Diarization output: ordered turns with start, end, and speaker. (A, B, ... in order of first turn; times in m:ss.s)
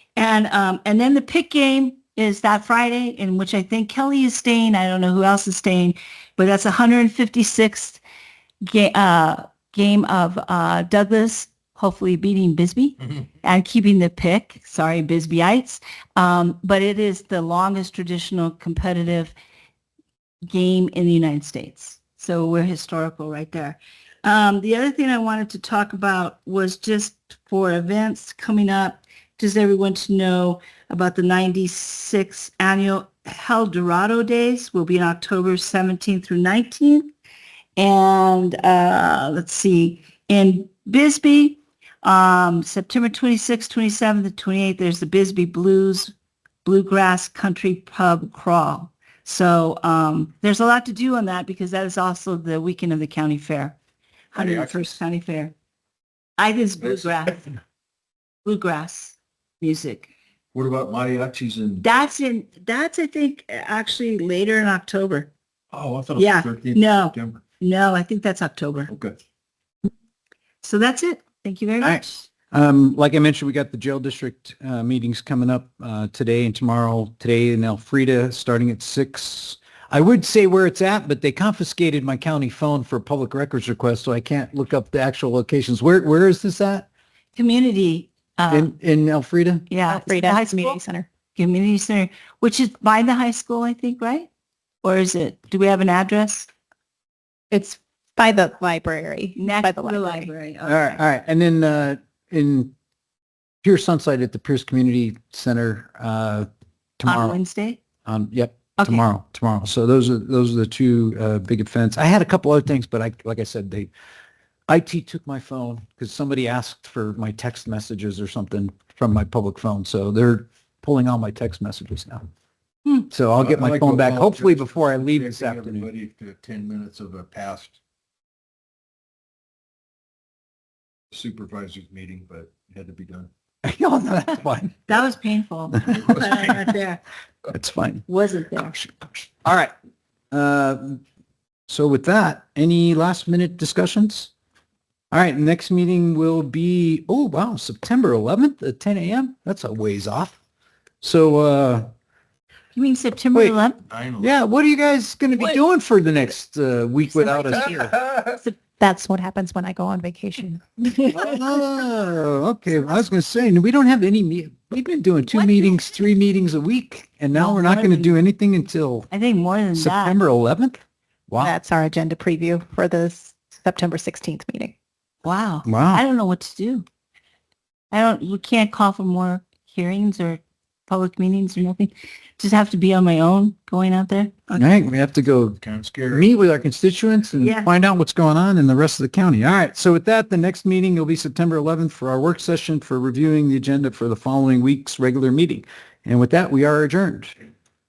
0:00.2-0:08.0 A
0:08.6-0:19.3 A
0:20.5-0:37.1 A
0:37.8-0:46.1 A
0:46.6-0:53.8 A
0:54.3-0:55.5 A
0:54.3-0:54.9 B
0:56.4-0:57.6 A
0:58.4-1:00.1 A
1:00.5-1:01.8 B
1:01.8-1:05.3 A
1:05.7-1:07.4 B
1:06.2-1:08.9 A
1:08.9-1:09.2 B
1:10.6-1:12.3 A
1:11.8-1:26.9 C
1:27.3-1:28.7 A
1:28.5-1:29.7 C
1:29.7-1:30.8 A
1:29.9-1:31.1 D
1:31.4-1:34.3 A
1:34.8-1:36.5 A
1:37.5-1:40.3 D
1:39.4-1:41.0 A
1:40.6-1:42.7 C
1:43.6-1:46.5 C
1:47.0-1:47.4 C
1:47.0-1:47.8 A
1:48.0-1:53.9 C
1:48.8-1:49.0 A
1:54.7-2:02.2 C
2:03.1-2:05.9 C
2:03.4-2:07.8 B
2:11.1-2:13.3 B
2:13.6-2:14.8 C
2:14.9-2:17.0 A
2:15.7-2:16.5 C
2:17.5-2:18.0 C
2:18.1-2:18.8 A
2:19.4-2:19.7 C
2:20.3-2:21.0 C
2:21.7-2:24.3 C
2:25.1-2:30.4 C
2:31.0-2:31.9 C
2:32.7-2:33.8 A
2:33.9-2:34.3 B
2:34.2-2:38.0 C
2:37.2-2:37.9 D
2:38.4-2:41.6 D
2:41.1-2:49.1 C
2:47.3-2:48.2 A
2:49.1-2:50.2 A
2:49.8-2:51.5 C
2:51.4-2:54.7 D
2:55.2-2:56.8 A
2:55.6-2:56.0 C
2:57.9-3:04.6 A
3:04.5-3:17.3 C
3:05.6-3:06.2 B
3:07.4-3:07.7 A